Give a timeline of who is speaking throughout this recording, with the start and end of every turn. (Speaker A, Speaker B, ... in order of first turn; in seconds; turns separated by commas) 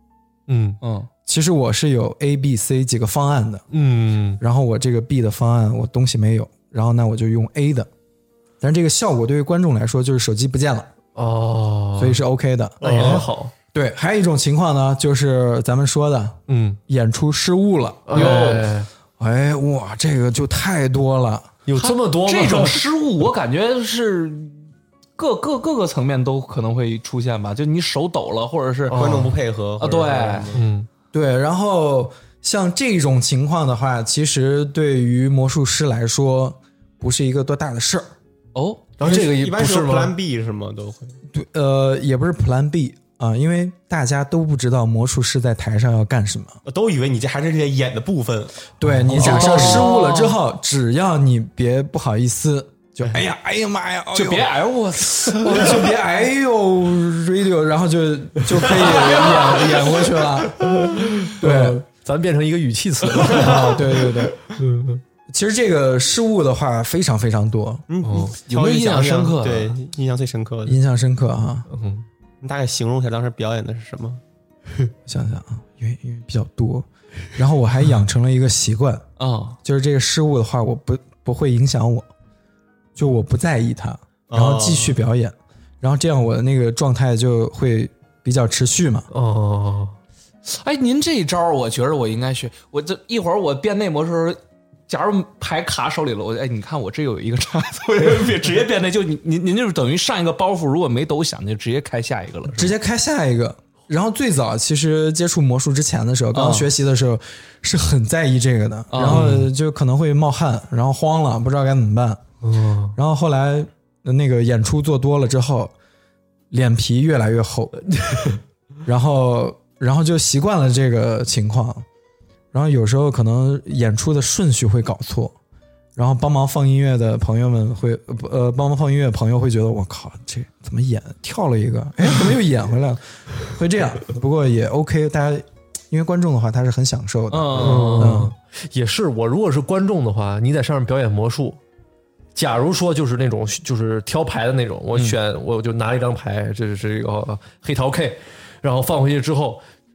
Speaker A: 0.5-0.8, Speaker B: 0.8-1.1, Speaker C: 1.3-3.6, Speaker A: 3.7-4.4, Speaker C: 4.4-7.9, Speaker C: 8.6-10.9, Speaker A: 11.2-12.2, Speaker C: 12.0-18.5, Speaker D: 12.8-13.3, Speaker A: 12.8-13.5, Speaker A: 16.5-16.8, Speaker A: 18.1-18.9, Speaker B: 18.1-18.7, Speaker C: 19.2-21.5, Speaker A: 21.7-22.9, Speaker B: 21.8-29.3, Speaker A: 28.9-29.4, Speaker D: 28.9-30.7, Speaker B: 29.8-30.5, Speaker A: 30.5-30.9, Speaker C: 31.1-38.1, Speaker B: 38.5-38.9, Speaker A: 39.0-40.1, Speaker D: 39.0-41.2, Speaker C: 41.3-46.6, Speaker D: 46.6-49.7, Speaker C: 48.8-54.5, Speaker A: 49.1-49.9, Speaker B: 49.1-50.4, Speaker B: 54.1-55.8, Speaker C: 55.2-60.6, Speaker B: 58.8-60.0, Speaker A: 60.6-65.0, Speaker C: 61.4-61.8, Speaker C: 63.3-64.4, Speaker D: 63.3-63.7, Speaker C: 65.3-67.8, Speaker D: 67.9-70.8, Speaker A: 68.0-68.3, Speaker B: 68.5-69.8, Speaker C: 70.7-71.7, Speaker A: 71.7-72.0, Speaker D: 72.4-74.2, Speaker C: 75.1-79.1, Speaker B: 79.2-79.6, Speaker C: 79.6-82.1, Speaker C: 83.0-89.1, Speaker D: 84.3-85.0, Speaker A: 89.1-90.0, Speaker B: 90.5-102.7, Speaker C: 102.5-112.2, Speaker B: 106.3-106.7, Speaker B: 108.9-109.5, Speaker A: 109.1-109.5, Speaker A: 112.4-113.0, Speaker C: 113.0-115.7, Speaker C: 116.5-117.8, Speaker A: 117.9-118.4, Speaker C: 118.8-121.8, Speaker C: 122.5-125.4, Speaker C: 126.0-138.3, Speaker B: 137.3-138.3, Speaker A: 137.6-141.6, Speaker D: 137.6-137.9, Speaker A: 142.3-149.6